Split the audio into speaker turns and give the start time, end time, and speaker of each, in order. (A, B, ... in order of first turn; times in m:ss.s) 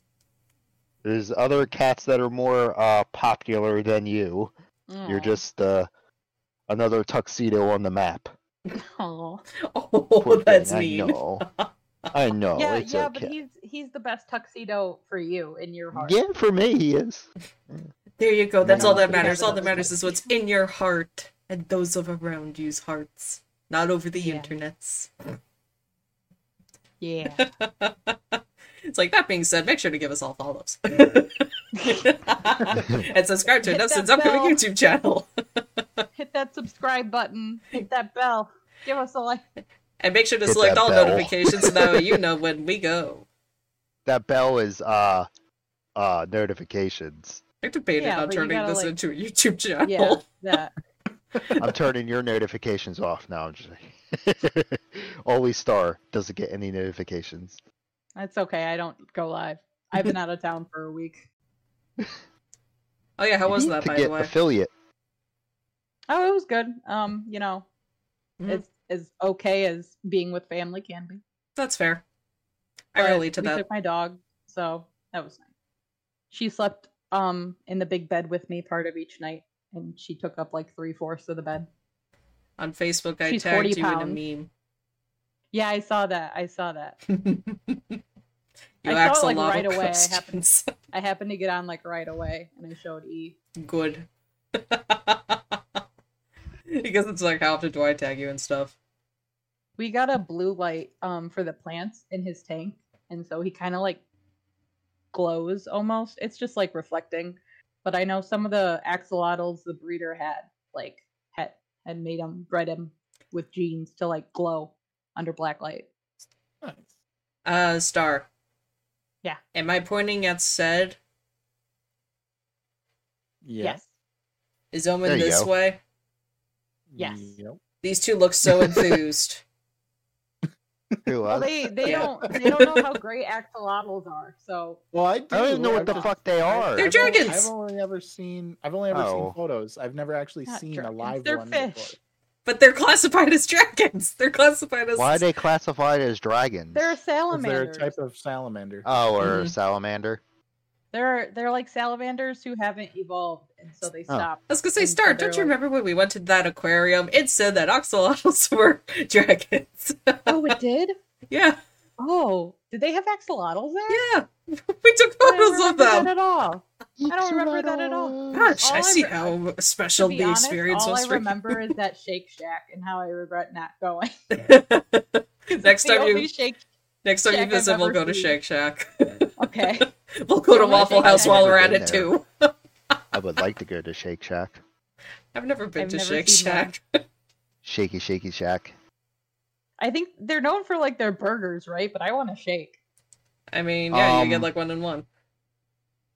0:01.0-0:04.5 A
0:04.9-0:05.4 B
0:05.1-0:05.9 A
0:06.7-0:08.3 A
0:08.8-0:09.4 B
0:09.7-0:11.7 C
0:10.2-0:11.4 A
0:12.1-0:13.3 A
0:12.6-0:16.2 B
0:15.9-0:17.9 A
0:18.2-0:25.1 C
0:18.6-0:19.9 A
0:18.7-0:20.3 B
0:24.2-0:24.5 B
0:27.0-0:27.4 B
0:27.3-0:35.8 C
0:33.7-0:34.6 B
0:36.2-0:39.4 B
0:40.0-0:43.3 C
0:40.5-0:42.2 A
0:44.1-0:45.3 A
0:46.0-0:47.4 A
0:47.6-0:50.2 C
0:48.0-0:48.9 B
0:49.8-0:50.7 B
0:51.6-0:57.6 A
0:58.2-1:01.2 B
1:03.2-1:04.3 C
1:03.5-1:04.7 A
1:06.1-1:07.6 B
1:08.5-1:11.2 B
1:11.6-1:12.0 C
1:12.9-1:13.6 C
1:13.0-1:15.4 B
1:16.3-1:21.7 B
1:22.6-1:24.5 C
1:23.3-1:24.2 B
1:25.5-1:27.0 B
1:27.1-1:28.0 C
1:28.8-1:30.7 C
1:28.9-1:33.4 B
1:33.6-1:35.4 C
1:36.7-1:38.8 C
1:39.8-1:44.0 B
1:45.1-1:55.9 B
1:56.6-1:56.9 D
1:57.4-1:58.3 C
1:59.5-2:01.0 C
2:03.4-2:03.8 D
2:03.6-2:03.9 B
2:04.7-2:05.8 C
2:05.0-2:05.5 A
2:06.9-2:07.6 D
2:07.0-2:07.3 B
2:07.8-2:09.4 C
2:08.5-2:08.9 D
2:11.1-2:12.1 A
2:11.3-2:14.8 B
2:11.8-2:12.4 C
2:11.8-2:12.4 D
2:14.9-2:22.0 D
2:15.3-2:17.2 A
2:15.7-2:16.1 B
2:16.8-2:17.5 C
2:18.9-2:19.4 A
2:20.5-2:22.0 B
2:22.4-2:25.3 C
2:25.0-2:27.0 A
2:26.7-2:28.0 B
2:27.3-2:29.0 D
2:28.8-2:30.2 A
2:29.2-2:29.5 C
2:30.9-2:35.5 B
2:34.5-2:40.5 C
2:40.3-2:41.0 B
2:41.3-2:41.6 C
2:42.0-2:44.0 B
2:43.9-2:46.1 C
2:45.2-2:49.4 B
2:47.0-2:48.6 A
2:48.3-2:51.7 C
2:50.0-2:54.1 B
2:54.3-2:56.3 C
2:55.5-2:56.6 B
2:57.0-3:02.5 C
2:57.2-2:58.4 B
2:59.4-2:59.9 B
3:00.5-3:01.6 B
3:00.7-3:02.1 A
3:03.1-3:04.6 A
3:05.3-3:06.8 C
3:05.8-3:06.7 B
3:07.6-3:08.8 A
3:09.8-3:12.8 B
3:13.5-3:15.1 C
3:13.9-3:14.5 A